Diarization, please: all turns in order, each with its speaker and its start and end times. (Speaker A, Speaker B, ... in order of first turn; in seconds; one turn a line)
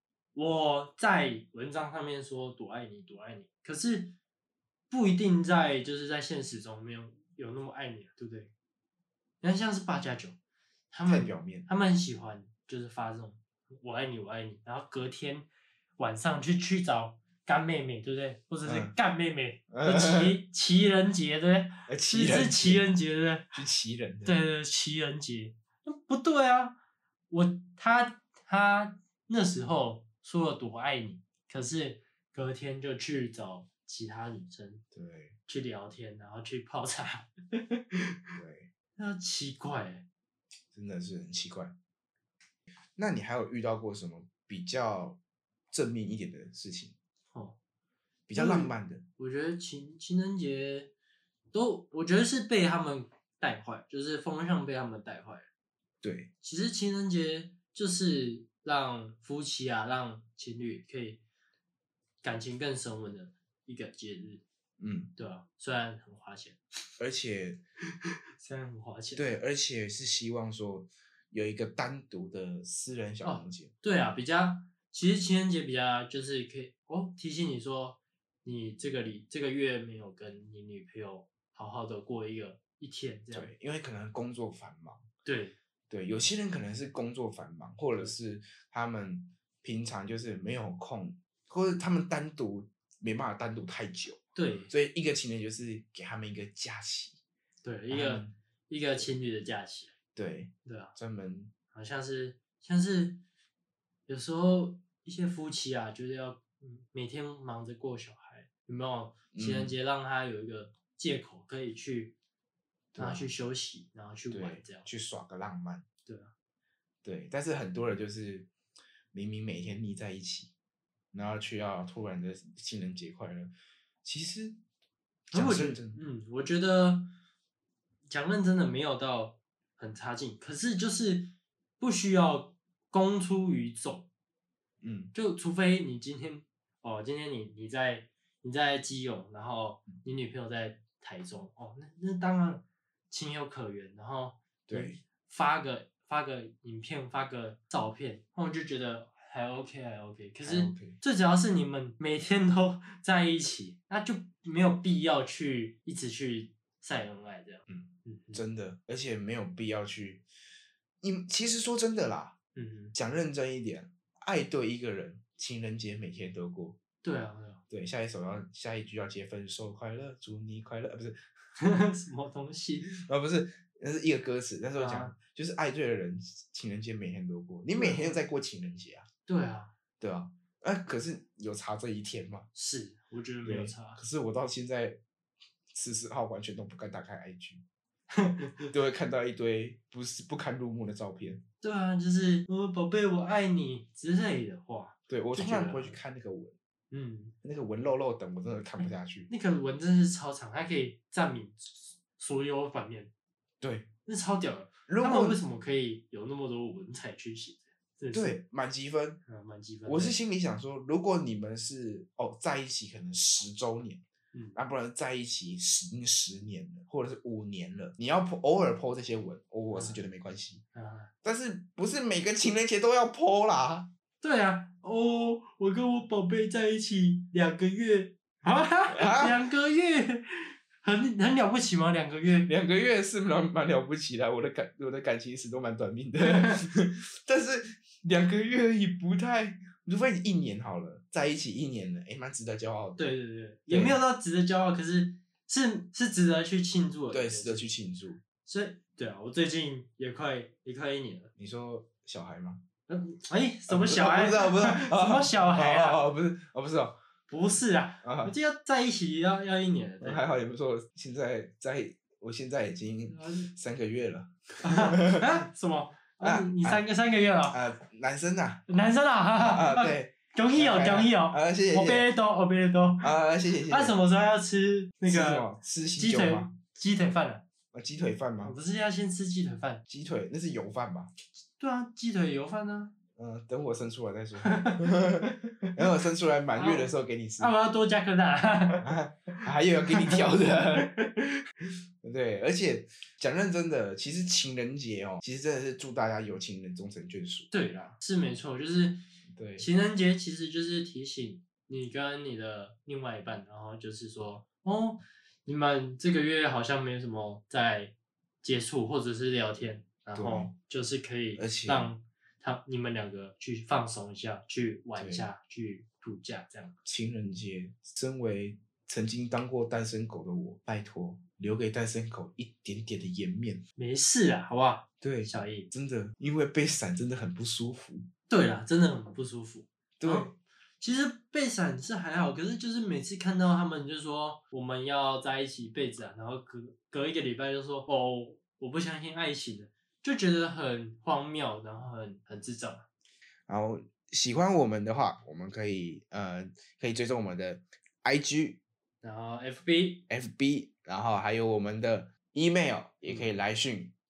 Speaker A: 0.3-4.1
Speaker A: 4.9-8.5
Speaker A: 9.4-10.3
Speaker A: 10.9-15.5
Speaker B: 11.1-11.7
Speaker A: 16.0-23.5
Speaker B: 18.6-18.9
Speaker B: 19.7-20.4
Speaker B: 21.9-22.9
Speaker B: 23.5-24.4
Speaker A: 24.2-26.8
Speaker A: 27.3-34.8
Speaker B: 34.9-35.4
Speaker A: 35.5-37.6
Speaker B: 38.3-38.7
Speaker A: 39.0-40.0
Speaker B: 40.7-41.7
Speaker B: 43.0-45.2
Speaker B: 45.7-46.9
Speaker B: 48.3-49.0
Speaker A: 48.3-50.9
Speaker A: 51.5-55.5
Speaker B: 56.0-56.3
Speaker A: 56.4-61.2
Speaker A: 62.2-64.4
Speaker B: 64.8-65.1
Speaker A: 65.2-66.6
Speaker B: 67.0-67.6
Speaker A: 68.4-69.4
Speaker B: 69.2-73.7
Speaker A: 73.2-83.5
Speaker B: 83.3-85.0
Speaker A: 85.2-85.5
Speaker B: 85.9-97.2
Speaker A: 94.3-94.7
Speaker A: 97.6-99.9
Speaker B: 97.9-98.3
Speaker B: 100.1-101.5
Speaker A: 100.6-100.9
Speaker A: 101.7-103.2
Speaker A: 104.1-112.2
Speaker B: 109.3-109.8
Speaker B: 112.9-113.3
Speaker A: 113.0-114.9
Speaker B: 114.3-115.8
Speaker A: 116.0-116.3
Speaker B: 117.0-118.5
Speaker B: 119.1-120.5
Speaker B: 121.1-123.5
Speaker B: 124.0-124.6
Speaker A: 125.3-127.1
Speaker B: 125.3-126.0
Speaker A: 128.1-134.1
Speaker B: 134.8-135.1
Speaker A: 135.1-158.4
Speaker B: 144.7-145.0
Speaker B: 150.4-151.0
Speaker B: 157.7-160.2
Speaker B: 161.0-162.3
Speaker A: 162.5-162.9
Speaker B: 162.9-166.8
Speaker A: 167.0-167.6
Speaker B: 167.7-171.2
Speaker A: 171.6-172.9
Speaker B: 172.8-179.1
Speaker A: 174.8-175.1
Speaker A: 177.7-178.1
Speaker A: 179.2-179.7
Speaker B: 180.0-182.5
Speaker A: 182.5-184.0
Speaker B: 183.4-185.0
Speaker B: 185.7-187.6
Speaker A: 188.1-188.7
Speaker B: 188.6-191.4
Speaker A: 191.6-196.0
Speaker B: 195.1-196.6
Speaker A: 196.9-197.3
Speaker B: 197.4-199.3
Speaker A: 199.3-203.1
Speaker B: 203.6-203.9
Speaker A: 204.1-208.4
Speaker B: 204.9-205.4
Speaker B: 208.1-209.2
Speaker A: 209.2-210.2
Speaker B: 209.8-214.0
Speaker B: 214.5-220.6
Speaker A: 219.7-220.0
Speaker A: 220.7-221.1
Speaker B: 221.2-223.9
Speaker A: 224.2-232.5
Speaker B: 228.9-229.4
Speaker B: 232.4-243.0
Speaker A: 236.2-236.6
Speaker A: 243.0-247.7
Speaker B: 243.7-244.0
Speaker B: 247.1-248.2
Speaker A: 248.4-251.3
Speaker B: 251.4-252.6
Speaker A: 252.9-256.1
Speaker B: 253.7-256.9
Speaker A: 257.3-260.3
Speaker B: 258.0-258.3
Speaker B: 260.0-265.4
Speaker A: 263.1-263.5
Speaker A: 264.6-267.6
Speaker B: 266.2-266.8
Speaker B: 267.5-268.6
Speaker A: 268.7-273.1
Speaker B: 269.4-272.1
Speaker B: 273.0-273.9
Speaker A: 273.7-277.4
Speaker B: 275.1-276.5
Speaker B: 277.7-278.5
Speaker A: 278.4-279.8
Speaker B: 279.9-281.1
Speaker A: 281.6-282.9
Speaker B: 283.2-287.5
Speaker A: 284.4-284.8
Speaker A: 286.5-288.9
Speaker B: 288.8-290.9
Speaker A: 290.8-291.2
Speaker B: 292.0-297.5
Speaker A: 297.5-299.0
Speaker B: 299.3-299.7
Speaker A: 299.6-316.7
Speaker B: 310.1-310.5
Speaker B: 311.4-311.9
Speaker B: 314.9-315.3
Speaker B: 316.9-323.6
Speaker A: 323.8-325.7
Speaker B: 325.0-328.1
Speaker A: 328.3-342.8
Speaker B: 330.0-330.3
Speaker B: 343.5-348.6
Speaker A: 349.0-350.0
Speaker B: 350.1-353.9